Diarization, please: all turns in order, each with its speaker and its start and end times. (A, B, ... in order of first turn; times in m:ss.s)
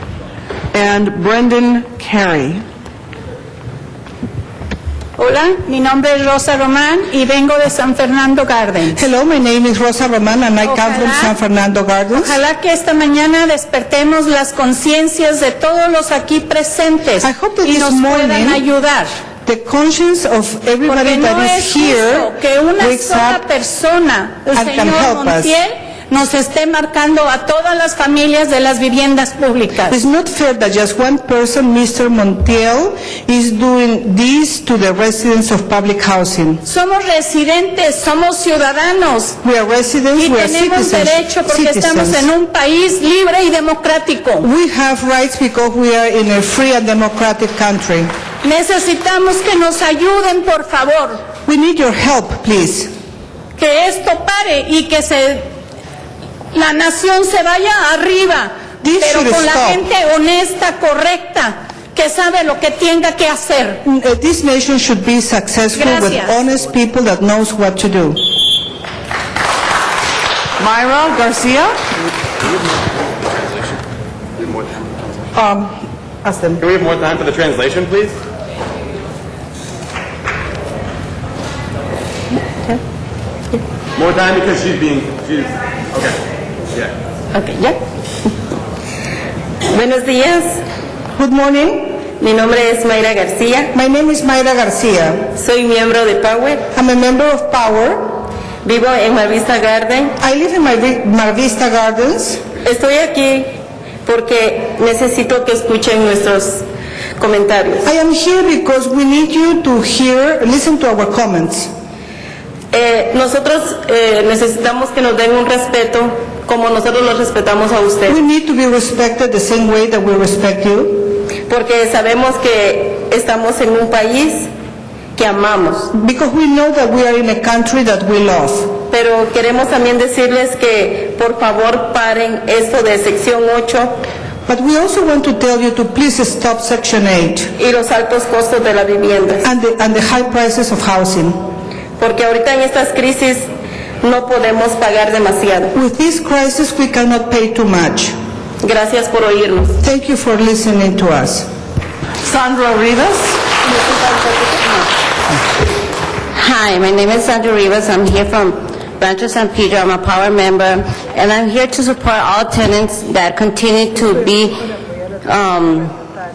0:00.7-0:02.6 A
0:05.2-0:09.0 B
0:08.9-0:12.4 C
0:10.6-0:11.3 B
0:12.2-0:19.1 B
0:17.2-0:18.6 C
0:19.4-0:23.4 C
0:20.9-0:30.0 B
0:24.5-0:25.6 C
0:29.9-0:36.6 C
0:36.7-0:39.4 B
0:39.4-0:42.3 C
0:40.2-0:44.5 B
0:44.4-0:48.1 C
0:48.4-0:51.2 B
0:51.5-0:52.9 C
0:53.6-0:55.5 B
0:56.5-1:03.8 B
0:58.8-0:59.8 C
1:03.8-1:08.2 C
1:05.8-1:06.3 B
1:10.6-1:11.8 A
1:14.4-1:15.0 D
1:15.4-1:15.7 C
1:16.2-1:16.6 C
1:16.6-1:18.2 D
1:24.0-1:26.2 D
1:27.3-1:28.3 E
1:29.7-1:30.6 E
1:31.2-1:32.0 C
1:32.2-1:33.7 E
1:33.7-1:35.3 C
1:35.4-1:36.7 E
1:36.7-1:38.2 C
1:38.6-1:40.2 E
1:40.2-1:42.4 C
1:42.6-1:43.5 E
1:44.0-1:46.7 E
1:47.2-1:47.9 E
1:47.8-1:51.7 C
1:52.7-1:58.2 E
1:58.1-2:01.1 C
2:01.5-2:04.5 E
2:05.2-2:05.9 E
2:05.9-2:08.7 C
2:08.9-2:14.0 E
2:14.5-2:17.5 C
2:17.6-2:19.5 E
2:19.4-2:21.4 C
2:22.0-2:23.5 E
2:24.0-2:25.7 E
2:25.7-2:28.2 C
2:28.6-2:29.8 E
2:29.8-2:31.5 C
2:32.2-2:33.8 A
2:36.3-2:44.7 F
2:45.2-2:46.0 F